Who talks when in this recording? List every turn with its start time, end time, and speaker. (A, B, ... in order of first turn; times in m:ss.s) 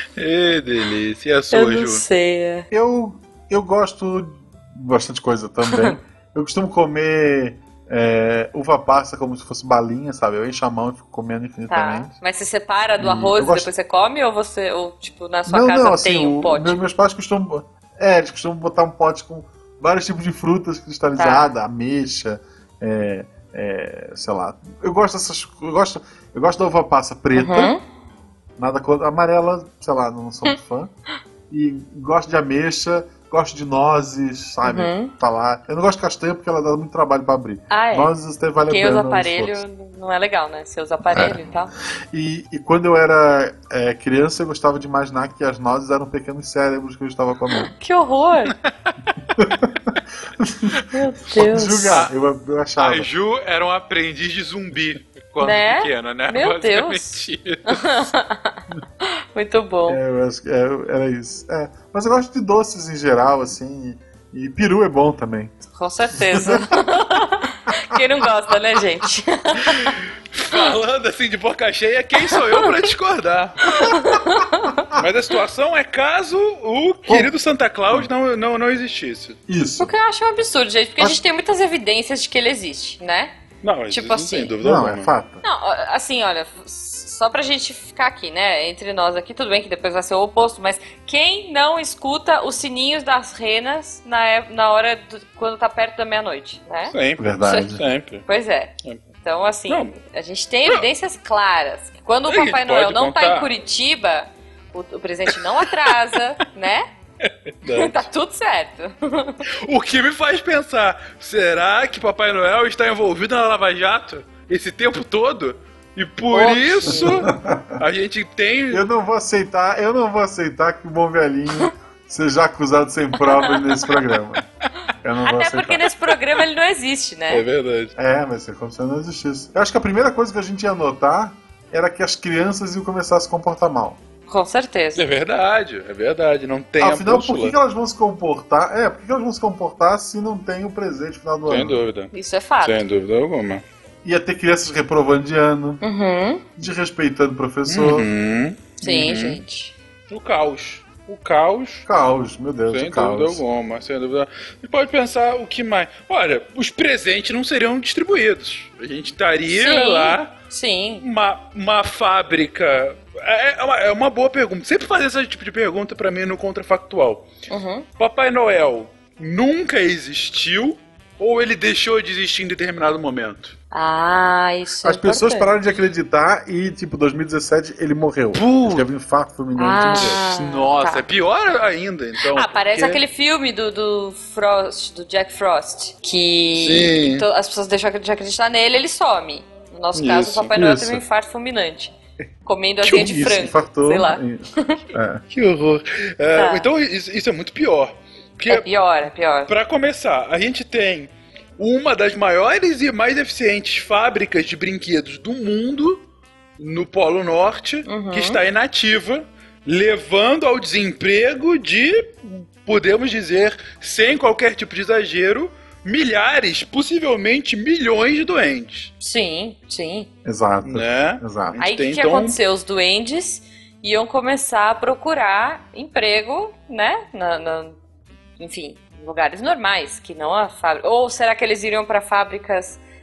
0:00.2-0:02.0 A
0:01.5-0:02.7 B
0:02.7-0:12.2 C
0:05.7-0:06.0 B
0:11.7-0:16.8 B
0:13.0-0:13.7 C
0:15.5-0:27.7 C
0:21.2-0:21.5 B
0:27.3-0:27.8 B
0:28.6-0:30.9 C
0:31.5-0:39.6 C
0:34.6-0:35.1 B
0:37.7-0:38.1 B
0:38.7-0:41.7 B
0:42.1-0:47.7 C
0:47.7-0:48.5 B
0:49.4-0:53.1 C
0:50.9-0:52.0 B
0:52.8-0:58.0 A
0:55.4-1:00.0 B
0:59.9-1:05.5 C
1:05.7-1:10.0 B
1:06.1-1:06.8 C
1:07.7-1:08.0 C
1:09.9-1:13.8 A
1:12.3-1:12.7 B
1:13.7-1:14.8 B
1:14.9-1:19.4 A
1:19.5-1:19.9 C
1:19.8-1:23.4 B
1:23.6-1:25.1 A
1:23.9-1:24.5 B
1:24.6-1:25.4 C
1:25.4-1:37.7 B
1:36.9-1:38.2 A
1:37.2-1:37.8 C
1:38.2-1:46.8 B
1:39.7-1:39.9 A
1:42.3-1:43.5 A
1:45.3-1:45.9 A
1:47.2-1:48.1 A
1:47.7-1:49.4 B
1:49.6-1:58.8 A
1:56.3-1:57.3 B
1:56.9-1:57.8 C
1:58.7-2:04.4 C
2:03.3-2:03.6 B
2:05.0-2:05.9 C
2:05.2-2:07.4 B
2:07.3-2:07.9 A
2:08.0-2:14.0 C
2:14.3-2:15.0 B
2:15.0-2:17.6 A
2:16.8-2:21.8 C
2:21.5-2:23.6 A
2:22.1-2:22.8 B
2:24.0-2:25.8 C
2:25.8-2:26.4 B
2:26.6-2:28.1 C
2:27.7-2:29.4 A
2:28.8-2:29.7 B
2:30.1-2:31.8 A
2:31.8-2:33.4 C
2:32.7-2:40.3 A
2:39.5-2:41.0 B
2:41.0-2:47.3 A
2:47.5-2:47.9 B
2:48.0-2:53.6 A
2:53.7-2:55.5 B
2:54.8-3:00.2 C
2:58.3-2:58.9 A
2:59.6-3:01.0 B
2:59.9-3:03.0 A
3:02.3-3:11.9 B
3:06.5-3:07.2 A
3:09.9-3:10.6 A
3:10.5-3:11.0 C
3:12.4-3:14.8 B
3:12.8-3:15.2 C
3:15.3-3:18.7 A
3:16.3-3:16.7 B
3:18.5-3:19.5 B
3:19.5-3:26.0 A
3:26.6-3:38.9 A
3:27.8-3:28.4 B
3:39.0-3:40.1 B
3:40.2-3:41.6 C
3:40.6-3:42.4 A
3:41.6-3:47.8 B
3:48.4-3:52.8 B